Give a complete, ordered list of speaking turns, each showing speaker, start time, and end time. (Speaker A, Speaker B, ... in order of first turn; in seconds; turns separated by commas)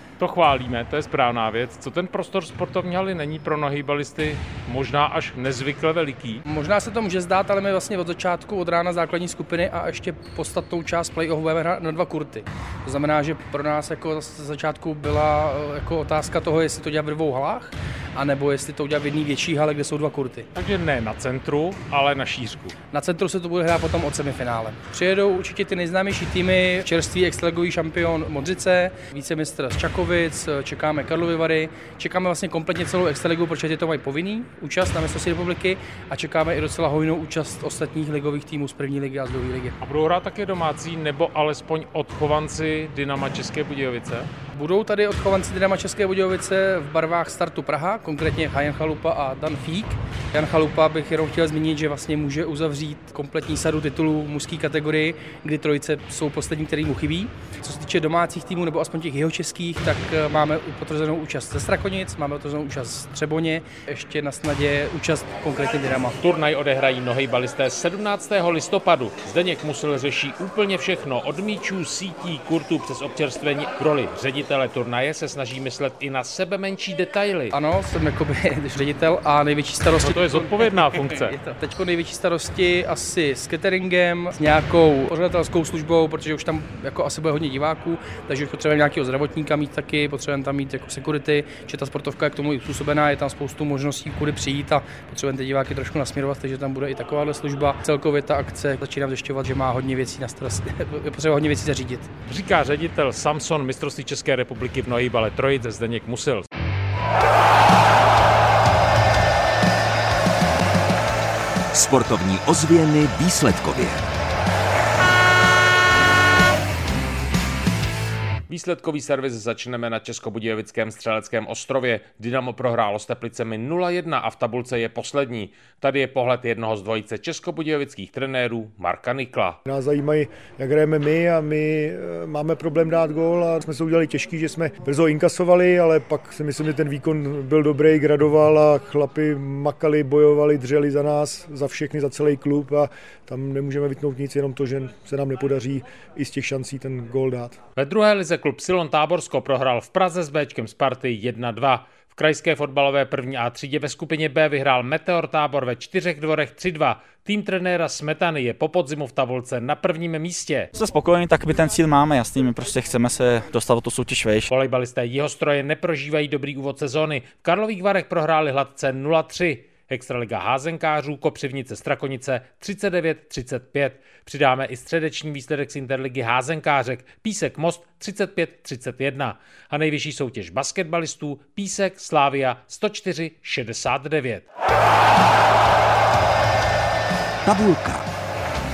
Speaker A: 0.2-6.4, Speaker B: 6.5-20.5, Speaker A: 20.5-22.7, Speaker B: 22.9-39.8, Speaker A: 39.8-44.3, Speaker B: 44.5-66.2, Speaker A: 66.2-77.5, Speaker B: 77.5-102.1, Speaker A: 80.0-81.3, Speaker A: 102.3-106.5, Speaker C: 111.7-114.0, Speaker A: 118.5-129.6, Speaker D: 129.6-147.6, Speaker A: 147.8-160.7, Speaker E: 160.7-164.5, Speaker A: 164.5-184.4, Speaker C: 187.4-188.1